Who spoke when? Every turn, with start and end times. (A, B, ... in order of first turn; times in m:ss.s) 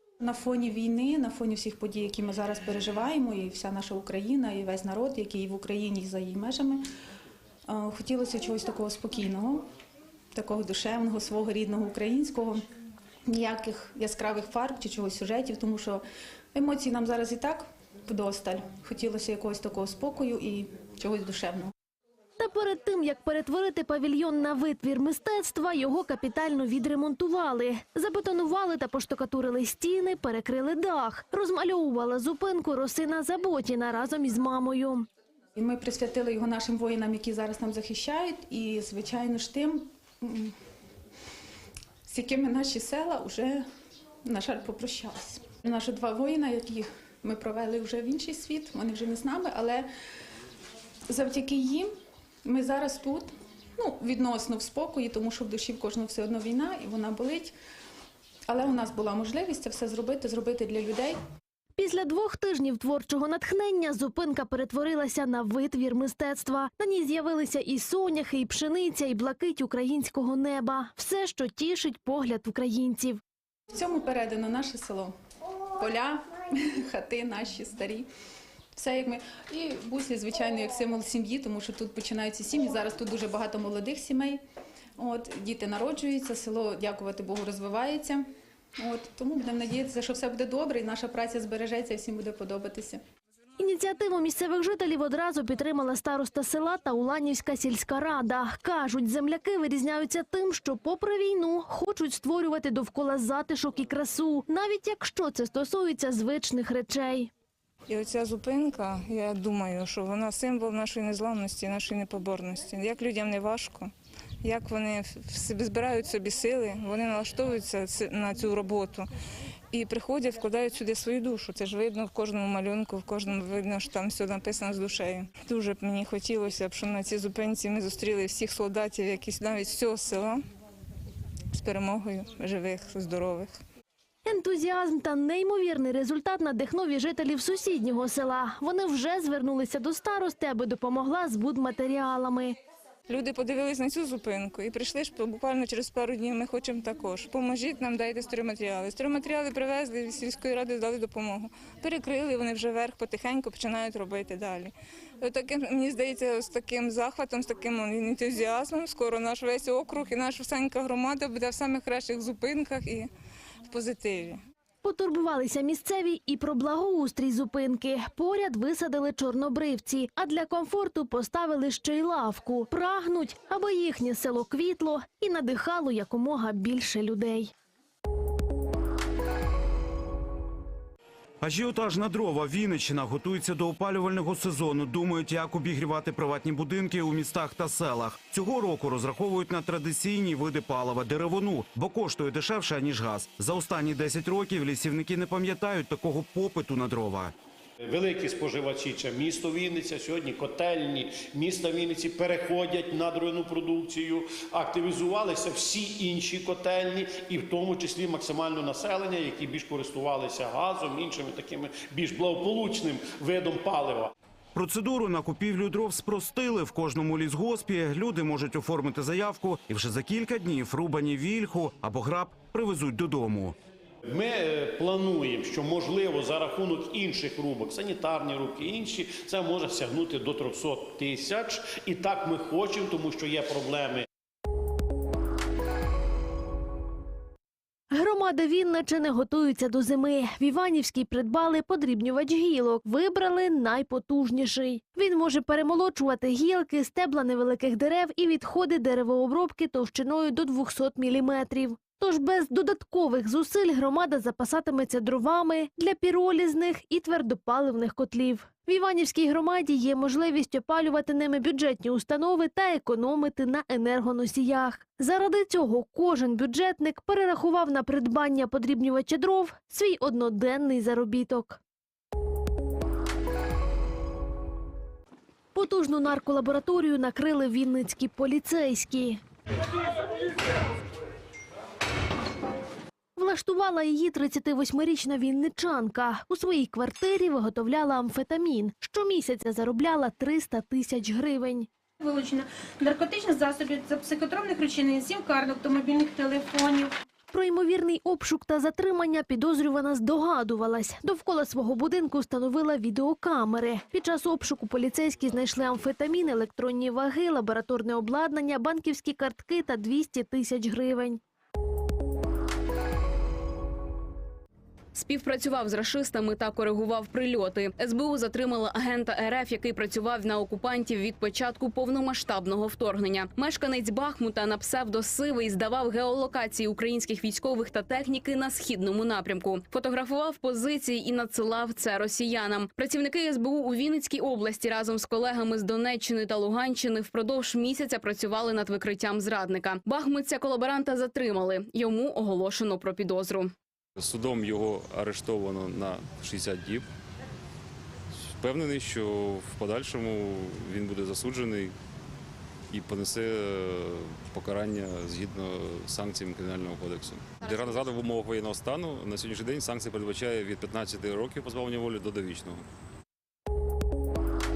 0:00.2-0:06.8 A
0:07.7-0:09.6 A
0:10.3-0:12.6 A
0:13.3-0:16.0 A
0:16.5-0:21.7 A
0:22.4-0:35.1 B
0:35.6-0:40.5 A
0:42.0-0:43.6 A
0:44.2-0:49.9 A
0:51.1-0:51.9 A
0:52.4-0:57.5 A
0:58.5-1:01.2 A
1:01.8-1:13.2 B
1:13.7-1:15.1 A
1:15.7-1:18.1 A
1:18.8-1:24.4 A
1:25.0-1:28.2 A
1:28.8-1:33.0 A
1:33.6-1:47.3 B
1:47.9-1:53.9 C
1:54.4-1:59.1 C
1:59.7-2:10.4 C
2:11.5-2:13.6 C
2:14.2-2:22.5 B
2:23.1-2:43.1 C
2:43.7-2:44.4 C
2:44.8-2:57.5 B
3:01.4-3:17.3 D
3:17.8-3:34.1 E
3:34.6-3:43.6 D
3:44.1-3:54.1 E
3:57.9-4:31.6 B
4:35.6-4:39.2 B
4:43.2-4:51.7 B
4:52.0-4:56.9 F
4:57.3-5:11.2 B
5:14.9-5:43.5 G
5:44.0-5:46.8 H
5:48.3-5:51.8 H
5:52.7-6:02.7 H